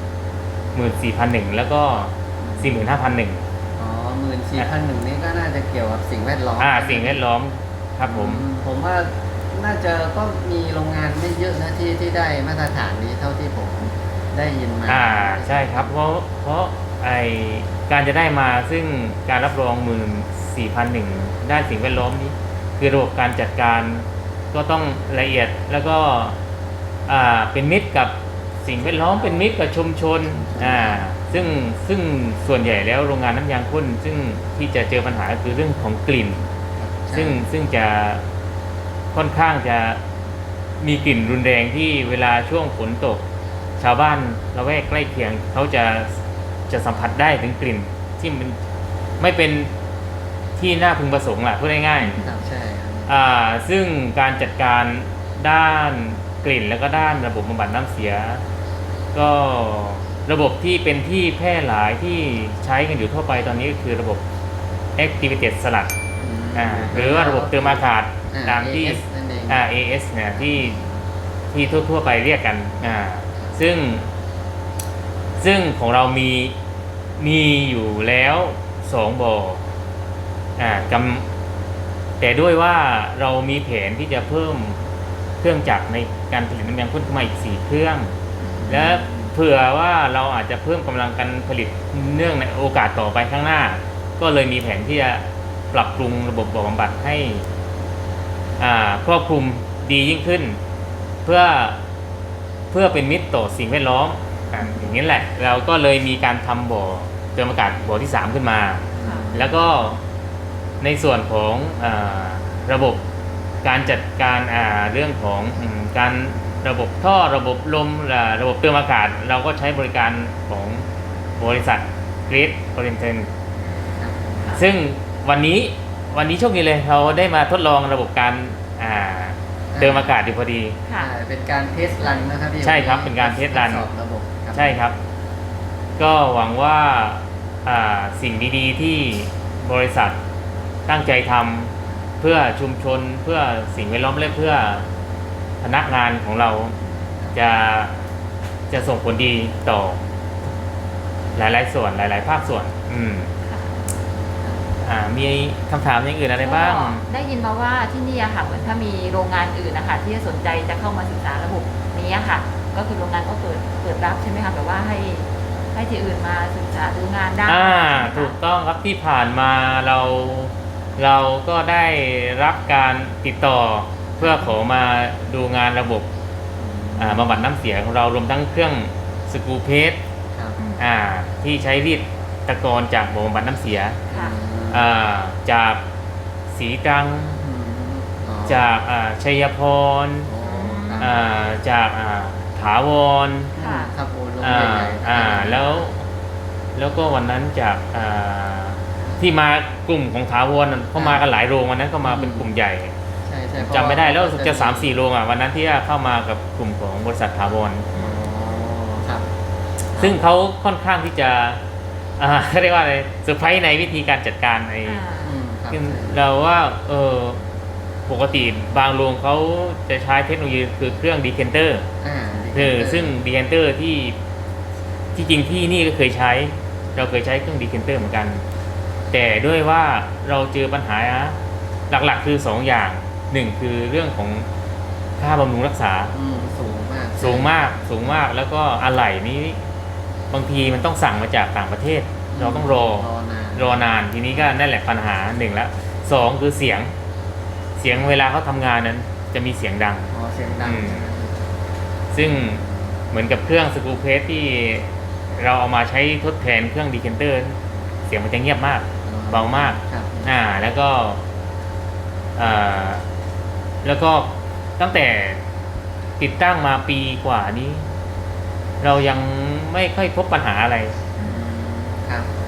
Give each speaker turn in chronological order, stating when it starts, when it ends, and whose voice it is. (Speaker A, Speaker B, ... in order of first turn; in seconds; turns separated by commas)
Speaker A: 0.7-3.4, Speaker B: 2.4-2.9, Speaker B: 3.8-7.2, Speaker A: 6.6-8.4, Speaker B: 8.0-15.9, Speaker A: 14.8-26.4, Speaker A: 27.1-36.4, Speaker C: 28.8-29.4, Speaker B: 30.4-31.5, Speaker B: 36.8-37.4, Speaker A: 37.1-38.2, Speaker A: 39.1-40.0, Speaker A: 40.8-43.2, Speaker A: 43.8-46.2, Speaker A: 46.7-48.5, Speaker A: 49.2-49.7, Speaker A: 50.6-52.2, Speaker B: 52.2-53.1, Speaker A: 53.1-58.4, Speaker A: 59.1-64.2, Speaker A: 65.0-65.9, Speaker B: 66.2-69.6, Speaker A: 66.5-70.8, Speaker A: 71.5-74.1, Speaker A: 75.4-76.5, Speaker A: 77.2-79.6, Speaker A: 80.6-81.2, Speaker A: 82.2-84.8, Speaker A: 85.4-88.1, Speaker C: 88.4-88.9, Speaker B: 88.6-89.3, Speaker A: 88.7-97.4, Speaker A: 98.6-100.6, Speaker A: 101.2-101.8, Speaker A: 102.7-110.0, Speaker C: 104.6-104.9, Speaker B: 109.0-109.6, Speaker C: 109.0-109.5, Speaker A: 110.8-113.0, Speaker A: 113.6-120.8, Speaker A: 121.4-123.3, Speaker C: 123.6-124.6, Speaker B: 124.0-124.4, Speaker A: 124.5-130.8, Speaker B: 129.7-130.2, Speaker B: 130.9-134.8, Speaker A: 132.6-133.9, Speaker A: 134.5-134.9, Speaker A: 136.0-140.2, Speaker A: 140.9-144.8, Speaker A: 145.6-146.8, Speaker C: 146.8-147.1, Speaker A: 147.3-147.9, Speaker A: 148.7-150.0, Speaker A: 151.3-153.3, Speaker C: 153.4-153.8, Speaker A: 154.8-157.0, Speaker C: 156.4-168.3, Speaker A: 167.4-176.1, Speaker B: 174.2-174.5, Speaker B: 176.6-177.3, Speaker A: 177.0-180.0, Speaker C: 180.6-180.8, Speaker A: 180.8-184.0, Speaker C: 184.1-184.4, Speaker B: 184.1-184.9, Speaker A: 184.7-185.8, Speaker A: 186.5-187.4, Speaker B: 187.3-188.7, Speaker A: 188.4-190.3, Speaker B: 190.2-191.2, Speaker C: 190.4-191.3, Speaker A: 191.0-193.5, Speaker B: 193.5-195.9, Speaker C: 193.6-193.9, Speaker A: 194.4-196.1, Speaker A: 196.7-202.9, Speaker B: 200.9-201.2, Speaker B: 202.0-202.5, Speaker B: 203.2-205.0, Speaker A: 203.6-207.9, Speaker C: 207.9-208.7, Speaker B: 207.9-209.3, Speaker B: 209.9-210.2, Speaker A: 210.0-211.6, Speaker A: 212.2-215.0, Speaker C: 214.8-215.4, Speaker B: 215.2-216.1, Speaker A: 215.7-217.4, Speaker A: 218.1-221.9, Speaker B: 222.0-223.1, Speaker A: 222.5-224.2, Speaker A: 225.1-228.4, Speaker A: 229.1-231.4, Speaker A: 231.9-234.4, Speaker A: 235.2-236.1, Speaker B: 236.1-237.6, Speaker A: 237.2-239.6, Speaker A: 240.3-246.9, Speaker B: 242.3-244.5, Speaker A: 247.8-250.1, Speaker B: 250.1-251.4, Speaker A: 250.6-251.1, Speaker A: 252.1-261.2, Speaker B: 252.2-252.8, Speaker B: 259.0-260.3, Speaker A: 262.4-263.0, Speaker A: 263.8-265.4, Speaker A: 266.2-267.8, Speaker A: 268.8-270.9, Speaker C: 271.1-271.4, Speaker B: 271.2-272.3